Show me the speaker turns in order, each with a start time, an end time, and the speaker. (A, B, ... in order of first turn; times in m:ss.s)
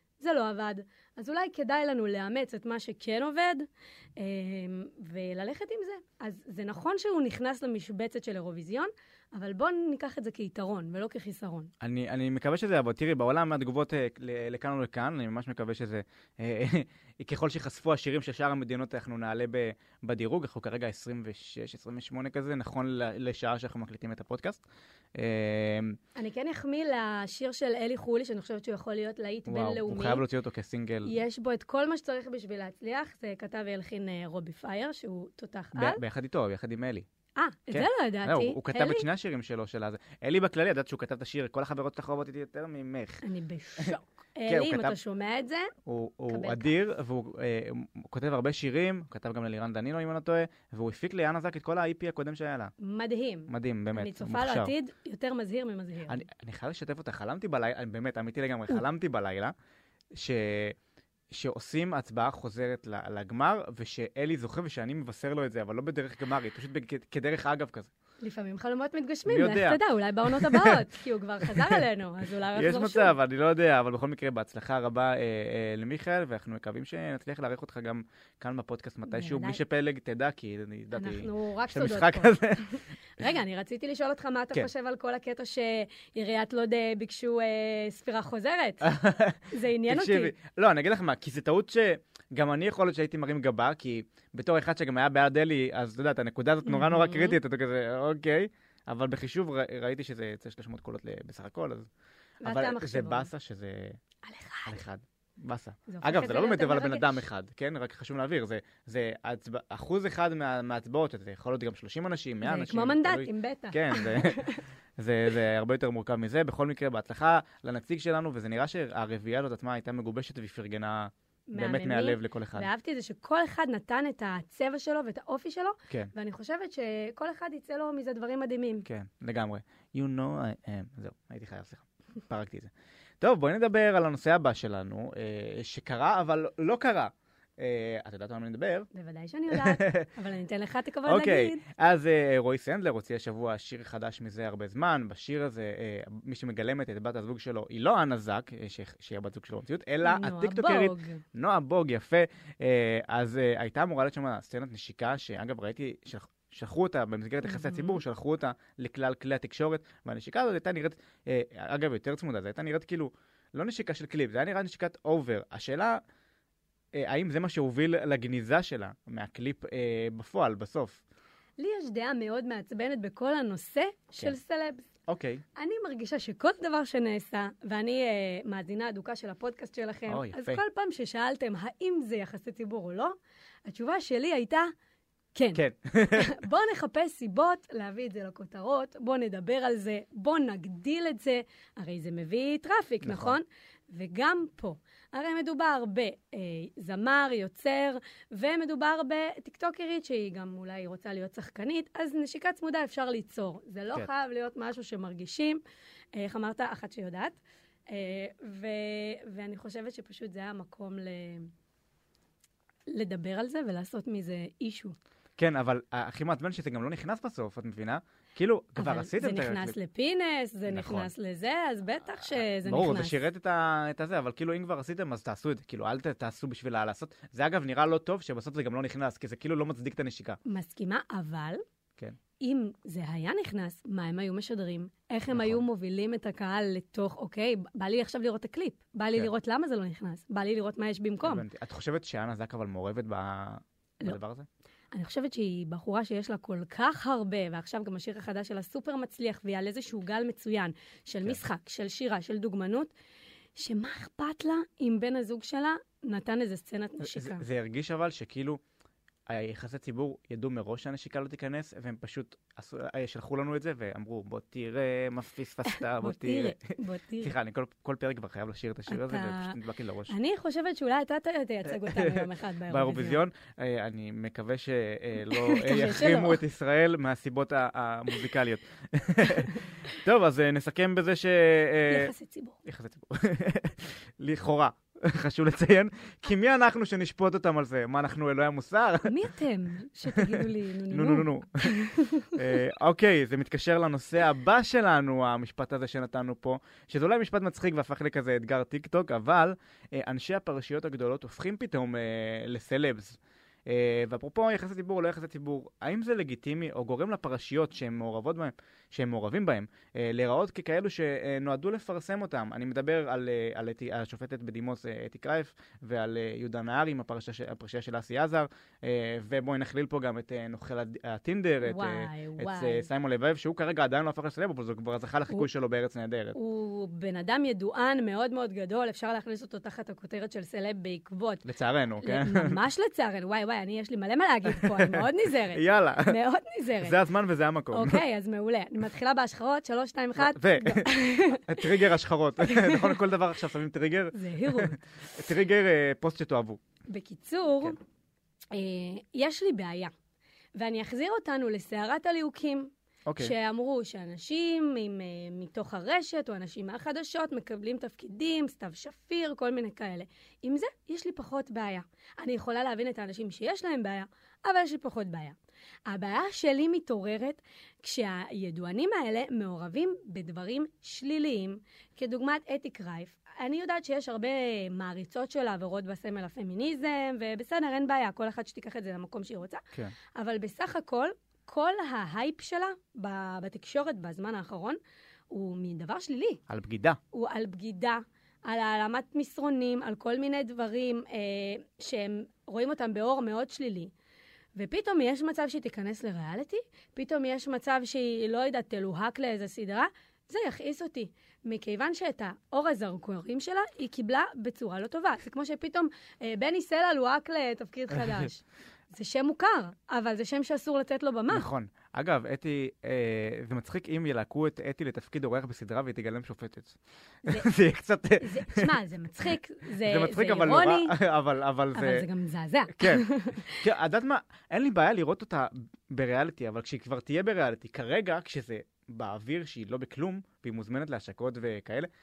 0:00.2-0:11.7 A
0:11.8-0:24.6 B
0:25.2-0:26.0 B
0:26.2-0:30.2 A
0:29.5-0:31.2 B
0:31.0-0:36.0 A
0:35.8-0:37.1 B
0:37.4-0:39.1 A
0:37.7-0:43.2 B
0:43.2-0:45.7 A
0:44.5-0:45.0 B
0:45.8-0:52.7 B
0:46.3-0:46.7 A
0:52.8-0:56.2 A
0:53.5-0:54.7 B
0:56.1-0:59.5 B
1:00.2-1:00.8 B
1:01.3-1:07.9 B
1:08.2-1:13.1 A
1:09.3-1:10.8 B
1:12.5-1:22.7 B
1:19.1-1:19.6 A
1:20.9-1:28.9 A
1:28.8-1:41.9 B
1:29.5-1:30.3 A
1:36.6-1:37.4 A
1:42.4-1:43.3 A
1:42.4-1:44.0 B
1:44.2-1:44.8 A
1:44.7-1:54.5 B
1:45.9-1:47.2 A
1:52.4-1:54.6 A
1:55.0-2:02.7 B
2:01.5-2:08.9 A
2:08.8-2:18.9 B
2:18.9-2:21.6 A
2:19.5-2:20.1 B
2:21.1-2:46.0 B
2:30.0-2:31.2 A
2:37.4-2:38.0 A
2:46.9-2:51.0 B
2:51.6-2:54.9 A
2:55.1-2:55.4 B
2:55.6-3:04.7 A
3:00.1-3:00.6 B
3:05.4-3:25.6 A
3:05.6-3:06.3 B
3:13.0-3:13.4 B
3:26.1-3:27.4 A
3:27.9-3:31.5 A
3:32.9-3:35.0 A
3:35.4-3:39.8 B
3:38.8-3:43.2 A
3:40.7-3:41.1 B
3:42.3-3:50.4 B
3:50.4-3:51.6 A
3:52.4-4:01.4 A
3:55.3-3:55.6 B
4:01.2-4:04.5 B
4:04.9-4:12.9 A
4:13.6-4:17.4 A
4:17.0-4:18.6 B
4:19.3-4:30.1 B
4:25.7-4:27.3 A
4:28.9-4:33.2 A
4:31.7-4:42.1 B
4:35.3-4:36.4 A
4:41.9-4:42.6 A
4:42.7-4:49.2 B
4:49.0-4:52.6 A
4:50.1-4:51.8 B
4:52.3-5:26.4 B
5:21.6-5:22.9 A
5:26.4-5:31.4 A
5:31.4-5:32.6 B
5:32.0-5:37.0 A
5:34.5-5:36.2 B
5:36.8-5:38.0 B
5:37.7-5:41.8 A
5:40.2-5:46.6 B
5:42.4-5:43.0 A
5:44.1-5:44.8 A
5:46.9-5:47.8 A
5:48.5-5:49.9 A
5:50.6-6:05.4 A
5:53.1-5:53.3 B
6:05.9-6:24.8 A
6:25.3-6:26.4 A
6:26.5-6:27.0 B
6:27.1-6:33.9 A
6:34.6-6:51.5 A
6:51.3-6:58.7 B
6:58.2-7:01.0 A
6:59.8-7:02.1 B
7:01.7-7:03.6 A
7:02.7-7:11.9 B